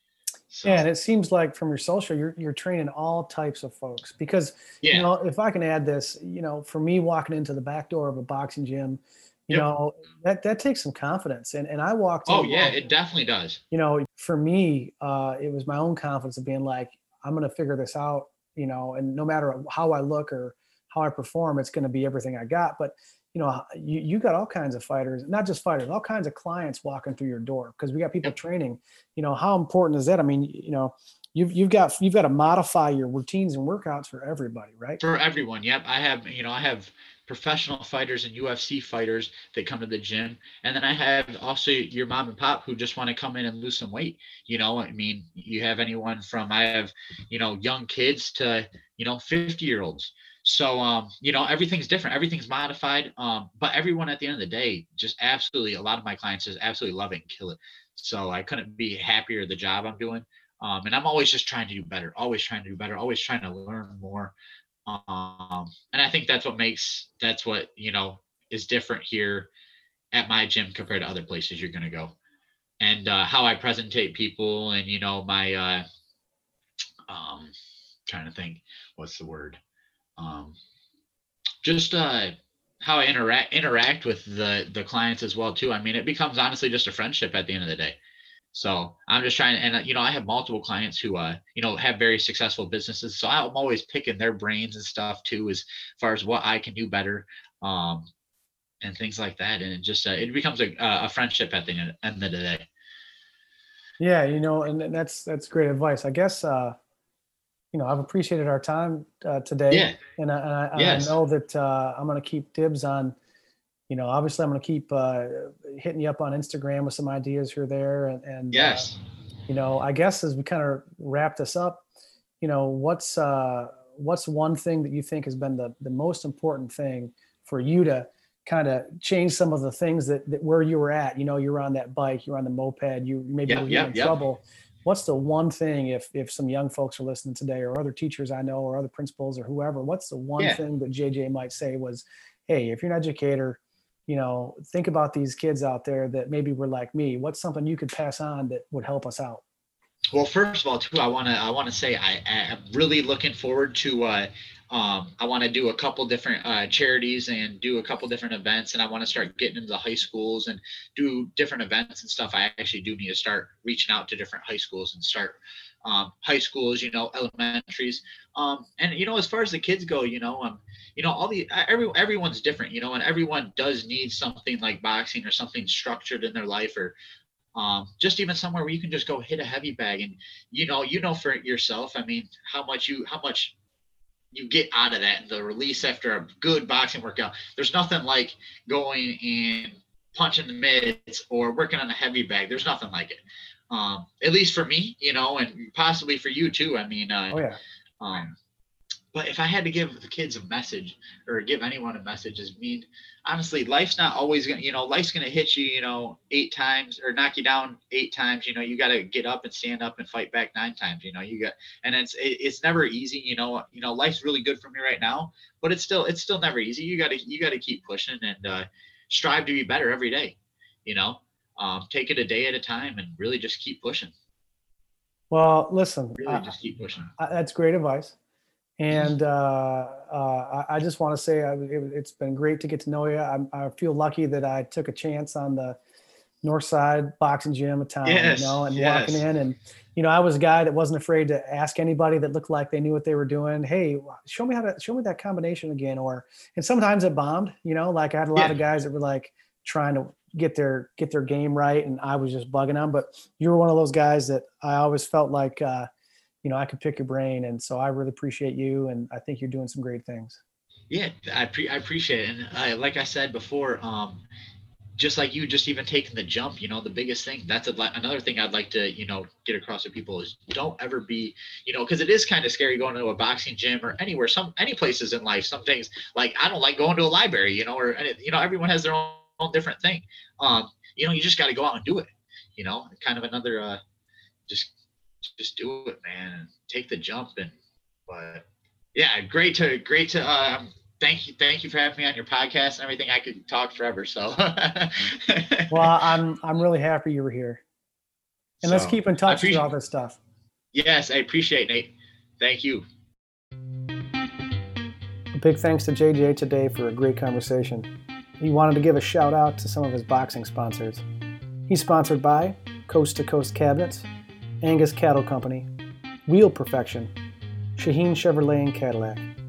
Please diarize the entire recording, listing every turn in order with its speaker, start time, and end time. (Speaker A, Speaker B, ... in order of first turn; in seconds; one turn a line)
Speaker A: 0.5-0.9
Speaker B: 0.6-12.9
Speaker A: 4.8-5.1
Speaker A: 12.3-13.6
Speaker B: 13.7-35.0
Speaker A: 35.0-64.3
Speaker A: 64.9-69.5
Speaker A: 70.1-72.1
Speaker A: 72.8-75.8
Speaker A: 77.1-77.5
Speaker A: 78.1-79.6
Speaker A: 80.2-80.6
Speaker A: 81.6-88.0
Speaker A: 88.5-98.1
Speaker A: 98.8-102.7
Speaker B: 104.0-106.7
Speaker B: 107.7-113.1
Speaker A: 109.7-110.0
Speaker A: 110.7-111.1
Speaker B: 113.9-118.9
Speaker A: 118.5-119.0
Speaker B: 119.5-121.8
Speaker B: 122.4-149.4
Speaker A: 133.5-134.1
Speaker A: 150.1-176.9
Speaker A: 177.6-183.5
Speaker A: 184.3-197.4
Speaker B: 197.3-197.6
Speaker A: 198.0-198.3
Speaker A: 199.1-224.1
Speaker B: 225.3-226.5
Speaker A: 226.2-227.1
Speaker B: 227.2-228.2
Speaker B: 228.8-235.8
Speaker B: 236.4-255.9
Speaker A: 238.0-239.2
Speaker B: 256.4-260.4
Speaker A: 260.9-264.2
Speaker A: 265.0-283.8
Speaker A: 284.5-287.6
Speaker A: 288.1-295.9
Speaker B: 295.7-297.6
Speaker A: 298.6-299.6
Speaker B: 298.6-300.2
Speaker A: 300.7-302.9
Speaker B: 305.4-307.9
Speaker B: 308.4-311.0
Speaker B: 311.7-314.1
Speaker B: 314.6-315.7
Speaker B: 316.3-317.1
Speaker B: 317.8-319.3